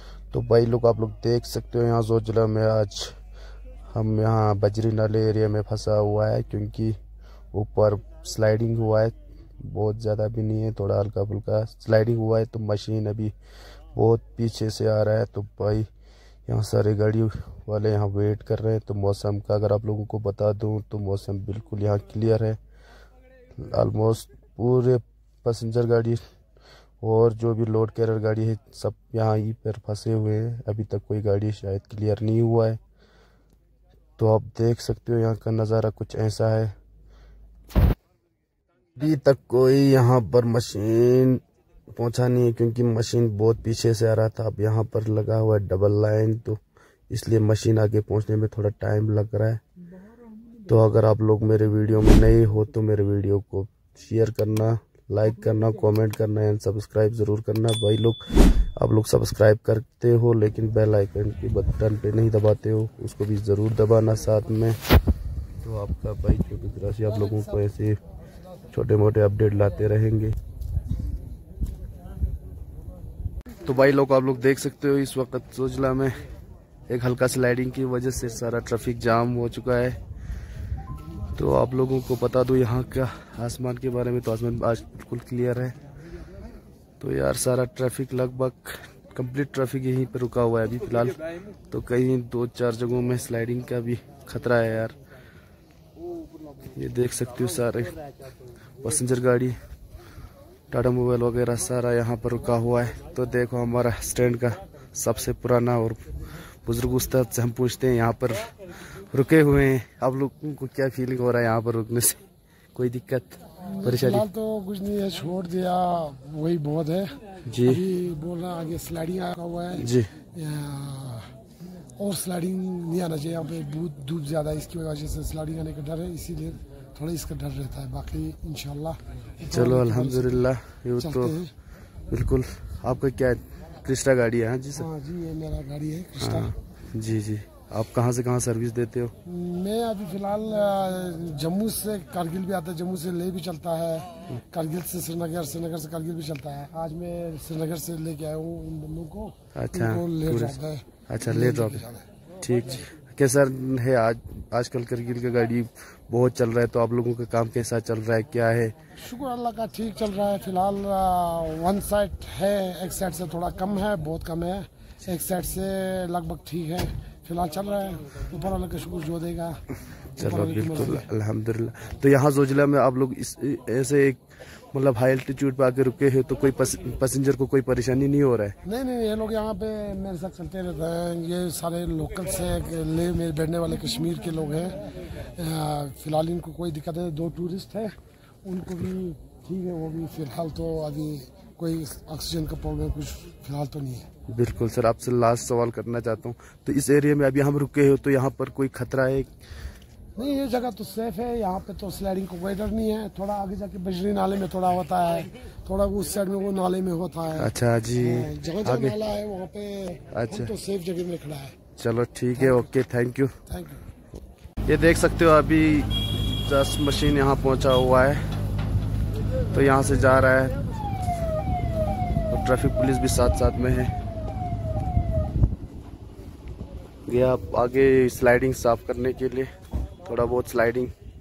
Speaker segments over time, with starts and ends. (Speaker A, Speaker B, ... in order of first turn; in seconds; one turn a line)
Speaker A: 0.3-3.2
Speaker A: 3.9-7.0
Speaker A: 7.5-13.3
Speaker A: 13.9-15.9
Speaker A: 16.5-22.6
Speaker A: 23.6-26.2
Speaker A: 27.0-32.8
Speaker A: 34.2-36.7
Speaker A: 39.0-41.4
Speaker A: 41.9-46.6
Speaker A: 47.1-49.6
Speaker A: 50.7-64.8
Speaker A: 65.6-68.0
Speaker A: 68.7-70.3
Speaker A: 73.7-76.2
Speaker A: 76.9-80.0
Speaker A: 81.3-85.8
Speaker A: 87.0-91.2
Speaker A: 91.7-95.0
Speaker A: 96.7-98.0
Speaker A: 98.8-99.6
Speaker A: 100.7-106.0
Speaker A: 106.7-112.2
Speaker A: 112.8-114.2
Speaker B: 113.6-121.3
Speaker A: 117.5-117.8
Speaker A: 119.8-120.1
Speaker B: 122.0-130.5
Speaker A: 129.5-131.3
Speaker B: 131.0-131.5
Speaker A: 132.1-134.9
Speaker B: 134.8-136.5
Speaker A: 136.2-139.1
Speaker B: 139.2-152.1
Speaker A: 149.6-151.8
Speaker A: 152.4-158.8
Speaker B: 158.9-169.6
Speaker B: 170.2-171.1
Speaker A: 170.2-178.6
Speaker B: 178.6-194.1
Speaker A: 194.3-199.3
Speaker B: 200.2-211.6
Speaker A: 207.4-209.0
Speaker A: 210.1-210.5
Speaker A: 211.8-213.3
Speaker B: 212.4-212.7
Speaker B: 213.5-213.8
Speaker A: 214.7-218.3
Speaker A: 219.5-220.6
Speaker A: 222.3-223.9
Speaker A: 227.1-229.5
Speaker A: 230.0-230.9